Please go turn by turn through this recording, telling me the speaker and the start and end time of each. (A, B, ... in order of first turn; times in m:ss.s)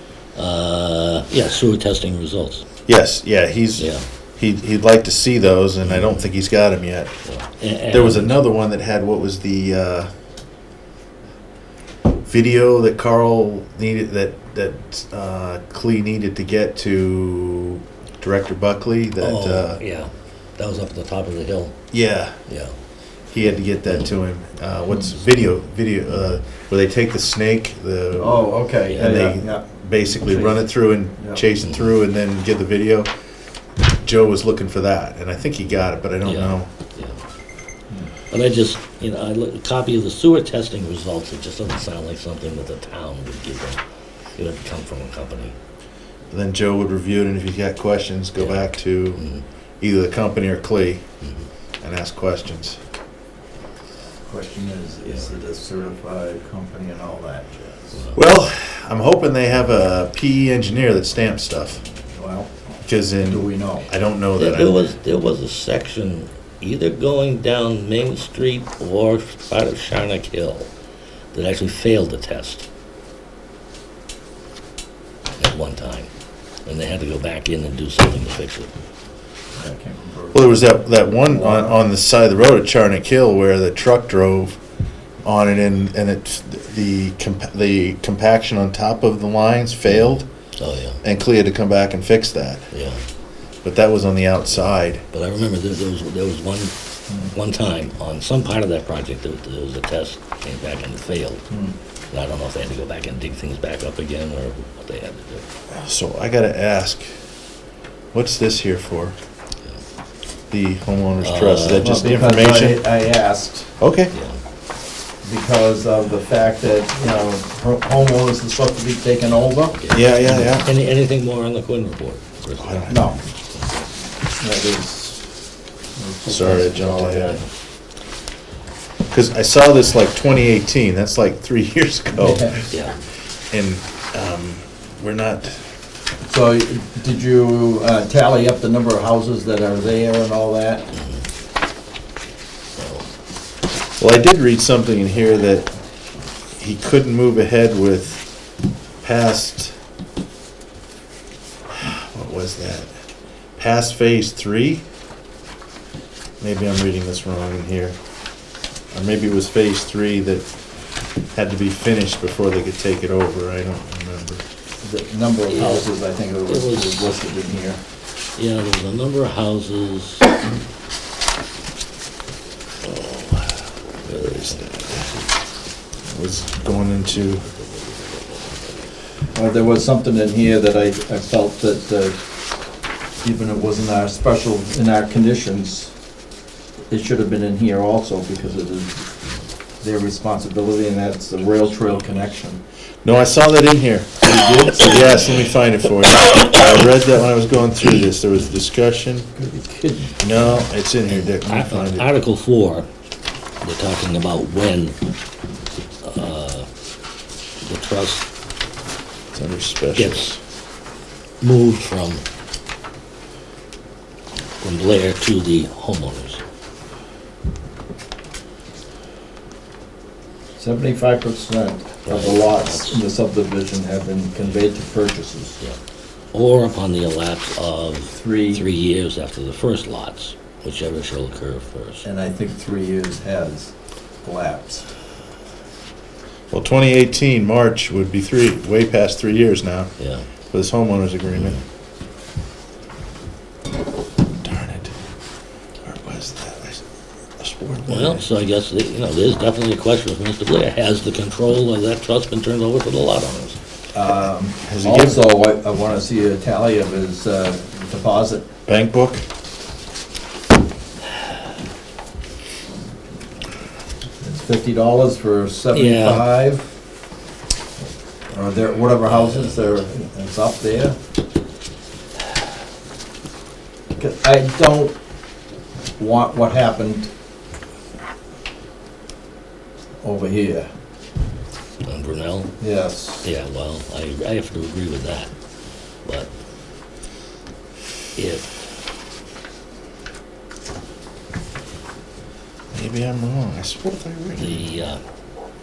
0:00.4-0:02.6 A
0:02.8-0:07.1 B
0:03.8-0:04.0 A
0:05.8-0:06.3 A
0:07.3-0:08.4 A
0:07.9-0:10.1 B
0:12.3-0:19.8 B
0:19.2-0:21.8 A
0:21.9-0:22.4 B
0:22.5-0:22.8 A
0:23.3-0:33.1 B
0:24.9-0:25.1 C
0:26.1-0:26.4 A
0:28.2-0:31.5 C
0:28.8-0:29.3 A
0:31.6-0:32.0 A
0:34.0-0:36.7 B
0:36.2-0:37.2 A
0:38.3-0:43.8 A
0:44.4-0:45.6 A
0:46.3-0:49.2 B
0:48.4-0:48.6 A
0:49.2-0:49.4 A
0:49.8-0:51.0 B
0:51.8-0:52.8 B
0:54.3-0:58.0 C
0:55.0-0:55.3 A
0:58.1-1:01.8 B
1:02.1-1:03.9 C
1:02.8-1:04.9 B
1:04.4-1:10.7 A
1:11.3-1:12.6 A
1:15.4-1:16.1 A
1:16.7-1:18.7 A
1:19.5-1:21.8 C
1:20.3-1:24.6 B
1:25.2-1:30.3 B
1:29.9-1:31.0 A
1:31.0-1:32.7 B
1:32.7-1:33.0 A
1:33.6-1:35.0 B
1:35.1-1:41.4 A
1:41.5-1:41.8 C
1:42.1-1:45.4 A
1:45.7-1:47.0 B
1:48.1-1:49.2 B
1:50.5-1:52.8 B
1:51.2-1:52.0 A
1:51.8-1:53.8 C
1:53.8-1:54.1 B
1:54.1-1:54.4 A
1:55.2-1:59.8 C
1:59.7-2:03.8 A
1:59.9-2:00.7 B
2:02.6-2:03.0 B
2:02.9-2:03.2 C
2:04.4-2:05.3 C
2:06.0-2:07.4 C
2:06.3-2:07.4 B
2:09.1-2:12.7 B
2:12.2-2:12.7 C
2:12.7-2:13.0 A
2:13.5-2:15.6 B
2:16.3-2:20.9 C
2:20.9-2:21.3 A
2:22.8-2:23.1 A
2:24.0-2:25.7 B
2:26.6-2:28.2 B
2:29.0-2:29.8 B
2:31.8-2:32.9 B
2:33.6-2:34.8 B
2:36.4-2:38.0 B
2:38.9-2:40.5 B
2:41.3-2:44.4 B
2:44.8-2:47.8 C
2:45.5-2:45.9 A
2:46.4-2:47.1 A
2:48.4-2:50.3 A
2:54.0-2:55.3 A
2:54.2-2:55.1 B
2:56.1-2:57.5 B
2:57.4-2:58.7 A
2:59.3-3:02.2 C
3:03.2-3:05.9 C
3:06.9-3:09.0 C
3:09.8-3:12.6 C
3:13.0-3:14.3 B
3:14.2-3:15.3 C
3:14.8-3:19.3 B
3:19.3-3:20.6 C
3:20.2-3:22.1 B
3:21.1-3:22.9 A
3:23.6-3:25.0 A
3:26.0-3:26.7 A
3:27.6-3:28.2 A
3:29.3-3:30.4 B
3:30.0-3:30.3 A
3:31.4-3:32.2 A
3:34.6-3:36.4 A
3:40.6-3:45.6 C
3:42.0-3:43.0 A
3:46.3-3:52.0 A
3:48.1-3:48.7 C
3:52.0-3:54.9 C
3:56.5-3:59.9 B
4:00.0-4:00.3 A
4:00.5-4:01.6 B
4:01.3-4:01.6 A
4:04.4-4:05.0 B
4:05.8-4:06.8 B
4:07.4-4:08.3 B
4:07.9-4:13.6 A
4:13.9-4:18.5 C
4:14.7-4:15.2 B
4:18.7-4:19.2 B
4:24.2-4:26.7 C
4:25.7-4:26.3 A
4:28.3-4:31.0 C
4:29.1-4:29.8 A
4:34.0-4:35.0 C
4:36.0-4:37.1 C
4:40.0-4:40.7 C
4:41.9-4:42.5 A
4:42.6-4:43.3 C
4:43.2-4:45.3 A
4:48.2-4:48.6 A
4:52.7-4:54.7 B
4:54.4-4:55.0 A